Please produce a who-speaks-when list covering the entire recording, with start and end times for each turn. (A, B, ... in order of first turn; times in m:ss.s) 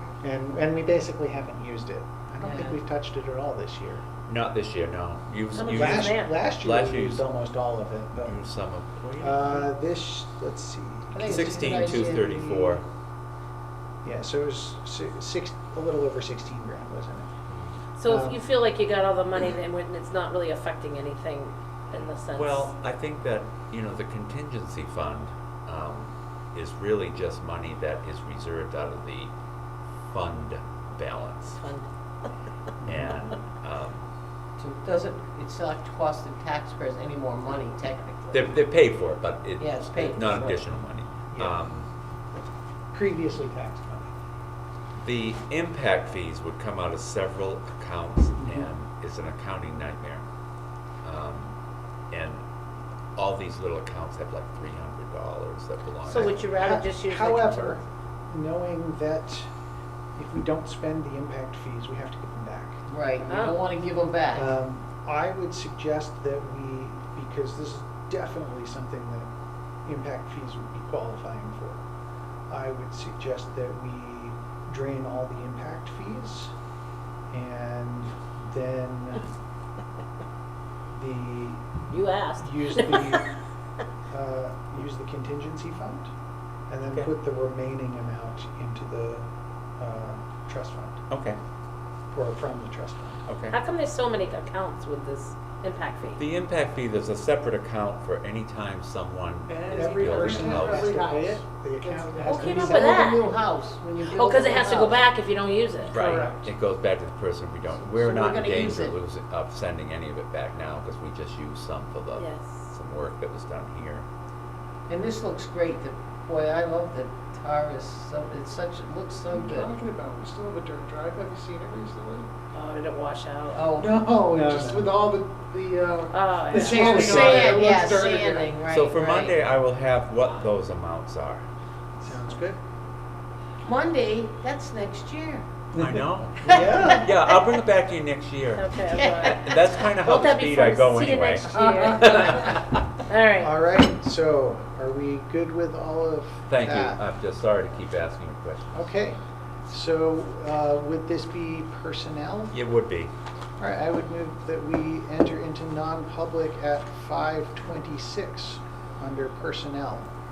0:00.2-0:04.0 A
0:02.4-0:02.8 B
0:04.3-0:07.2 C
0:05.6-0:06.5 D
0:05.7-0:08.4 A
0:08.2-0:09.7 C
0:09.2-0:12.8 A
0:11.1-0:12.5 B
0:11.2-0:12.8 C
0:14.0-0:17.3 A
0:17.5-0:17.8 C
0:18.0-0:22.7 D
0:18.0-0:18.4 A
0:22.3-0:29.3 C
0:30.1-0:31.6 C
0:31.6-0:31.9 D
0:32.8-0:33.1 A
0:32.8-0:34.0 C
0:34.6-0:38.6 B
0:38.3-0:41.9 C
0:39.6-0:40.6 B
0:41.3-0:41.6 A
0:42.9-0:44.1 A
0:45.0-0:50.2 C
0:48.4-0:48.7 A
0:51.0-0:51.5 C
0:52.1-0:52.4 C
0:53.2-0:56.4 C
0:56.1-0:57.8 D
0:56.1-0:59.5 A
1:00.2-1:02.8 A
1:02.9-1:04.5 B
1:03.3-1:03.6 D
1:04.3-1:09.3 A
1:09.9-1:11.8 A
1:12.5-1:16.5 A
1:17.3-1:19.3 A
1:20.9-1:21.7 A
1:21.9-1:23.3 D
1:22.4-1:23.3 A
1:24.1-1:26.1 A
1:26.7-1:29.3 A
1:29.8-1:31.0 A
1:31.1-1:31.4 C
1:32.1-1:33.3 A
1:33.3-1:33.6 C
1:33.5-1:36.2 D
1:36.2-1:40.9 C
1:39.5-1:42.8 E
1:39.7-1:43.0 A
1:42.2-1:45.0 B
1:42.3-1:43.2 D
1:44.1-1:46.5 D
1:45.9-1:54.1 C
1:47.8-1:49.0 B
1:52.2-1:52.6 D
1:54.9-1:59.7 B
1:59.3-2:02.3 E
2:02.5-2:03.6 D
2:03.5-2:03.9 B
2:03.8-2:04.9 A
2:03.8-2:08.6 E
2:06.1-2:07.2 D
2:06.6-2:09.4 B
2:06.8-2:07.7 A
2:08.7-2:11.4 C
2:12.0-2:12.6 A
2:13.6-2:15.5 B
2:15.7-2:22.8 C
2:15.8-2:17.1 A
2:16.5-2:16.9 B
2:18.6-2:23.5 D
2:18.9-2:19.4 B
2:21.6-2:21.9 A
2:23.4-2:27.0 A
2:26.5-2:28.9 C
2:28.7-2:32.6 A
2:32.5-2:33.1 C
2:33.6-2:40.1 A